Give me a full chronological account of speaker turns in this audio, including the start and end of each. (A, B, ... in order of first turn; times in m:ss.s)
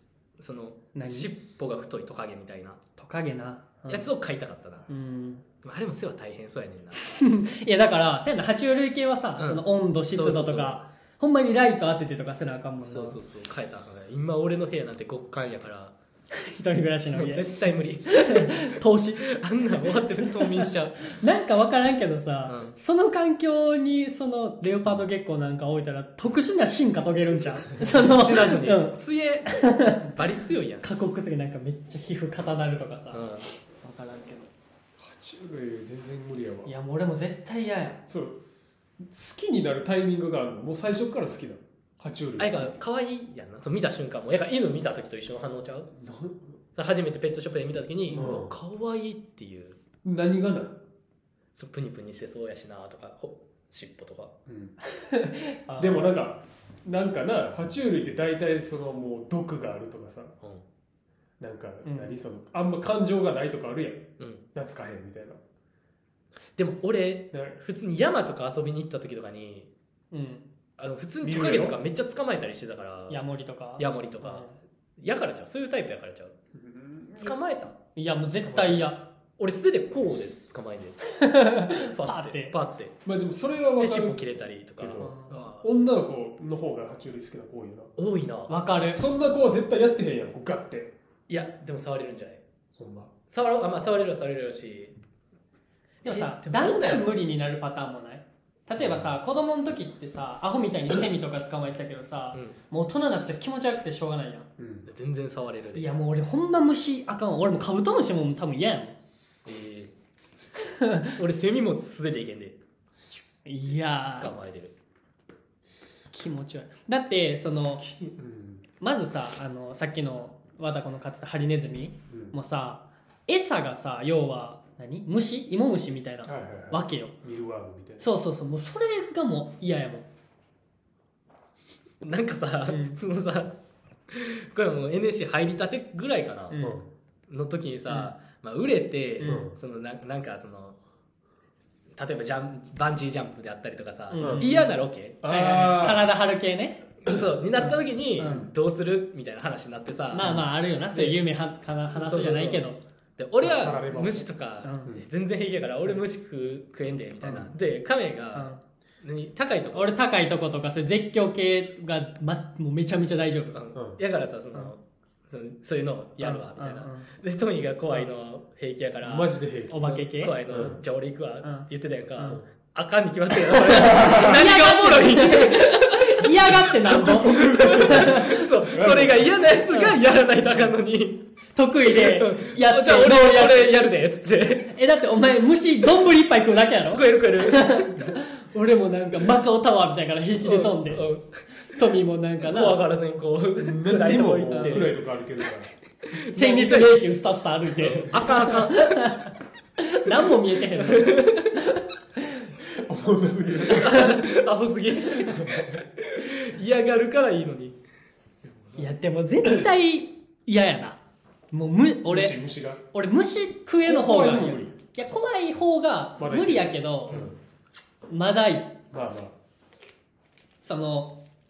0:00.4-0:02.8 A
0:01.0-0:01.3 B
0:03.0-0:04.1 B
0:03.9-0:04.9 A
0:04.9-0:05.4 B
0:05.6-0:07.1 A
0:07.0-0:13.2 B
0:09.4-0:10.8 A
0:12.8-0:16.0 A
0:16.3-0:17.5 B
0:17.1-0:18.7 A
0:18.1-0:19.3 B
0:19.2-0:21.2 A
0:20.2-0:30.1 B
0:22.5-0:22.8 A
0:27.8-0:30.9 A
0:30.8-0:33.3 B
0:33.1-0:33.4 A
0:33.8-0:34.5 B
0:35.0-0:36.7 C
0:36.6-0:38.0 B
0:38.1-0:38.4 C
0:39.0-0:42.7 C
0:42.4-0:45.9 A
0:46.0-0:46.6 C
0:46.8-0:49.8 A
0:48.1-0:48.6 C
0:50.0-0:50.8 C
0:51.6-0:54.3 A
0:54.5-0:54.8 C
0:54.9-0:56.1 B
0:55.8-1:00.4 C
1:01.4-1:05.4 C
1:01.8-1:02.2 B
1:06.6-1:09.7 A
1:10.1-1:10.4 B
1:10.8-1:13.2 A
1:11.2-1:11.8 C
1:13.1-1:14.6 B
1:13.8-1:16.4 A
1:16.6-1:17.3 C
1:17.2-1:17.8 A
1:18.0-1:19.1 B
1:18.3-1:18.9 C
1:19.4-1:21.0 A
1:21.1-1:22.6 B
1:21.7-1:23.0 A
1:23.0-1:27.9 C
1:23.8-1:25.7 A
1:25.0-1:25.4 B
1:28.0-1:28.5 A
1:28.5-1:29.0 B
1:28.9-1:30.9 C
1:31.3-1:32.4 A
1:32.8-1:33.1 C
1:33.3-1:35.0 A
1:36.0-1:37.1 A
1:36.0-1:44.5 B
1:38.8-1:39.1 C
1:44.6-1:44.9 C
1:44.9-1:45.9 A
1:45.8-1:49.0 B
1:49.4-1:49.9 A
1:50.6-1:51.2 B
1:51.2-1:52.6 A
1:53.4-1:54.3 B
1:53.7-1:54.7 A
1:56.1-1:57.8 B
1:57.5-1:58.7 C
1:58.8-2:07.2 B
2:02.1-2:02.4 C
2:06.2-2:08.1 C
2:08.0-2:10.1 B
2:12.0-2:13.6 A
2:12.7-2:13.0 B
2:14.1-2:16.6 A
2:16.5-2:16.8 B
2:16.6-2:16.9 C
2:17.3-2:20.8 A
2:19.2-2:19.5 B
2:19.3-2:19.6 C
2:22.0-2:25.2 A
2:24.1-2:26.9 B
2:24.2-2:24.6 C
2:25.2-2:26.1 C
2:27.1-2:30.4 A
2:27.6-2:28.5 B
2:30.1-2:32.8 B
2:30.2-2:30.5 C
2:30.9-2:31.2 A
2:31.9-2:39.9 A
2:33.4-2:34.3 C
2:34.6-2:34.9 B
2:37.2-2:37.6 C
2:38.4-2:38.6 B
2:39.7-2:43.6 B
2:43.5-2:56.3 A
2:43.8-2:44.0 C
2:46.2-2:47.1 B
2:49.0-2:49.8 C
2:49.7-2:50.8 B
2:50.5-2:50.8 C
2:53.5-2:58.4 B
2:53.8-2:54.4 C
2:56.7-2:59.4 C
2:57.4-3:01.2 A
2:59.7-3:00.0 B
3:01.6-3:03.9 B
3:01.9-3:04.7 A
3:04.6-3:11.1 B
3:06.9-3:08.0 A
3:10.4-3:11.3 A
3:11.7-3:12.8 B
3:12.4-3:15.0 A
3:13.6-3:15.7 C
3:14.5-3:14.8 B
3:16.1-3:17.2 A
3:16.3-3:22.5 B
3:17.8-3:19.0 A
3:20.7-3:21.6 A
3:22.6-3:24.0 C
3:23.7-3:27.8 A
3:23.7-3:24.3 B
3:25.3-3:25.8 C
3:28.8-3:31.0 B
3:31.5-3:32.4 B
3:32.1-3:32.8 C
3:32.9-3:37.3 B
3:33.8-3:34.8 C
3:36.2-3:37.4 C
3:38.1-3:38.8 B
3:38.9-3:39.4 C
3:40.6-3:41.2 B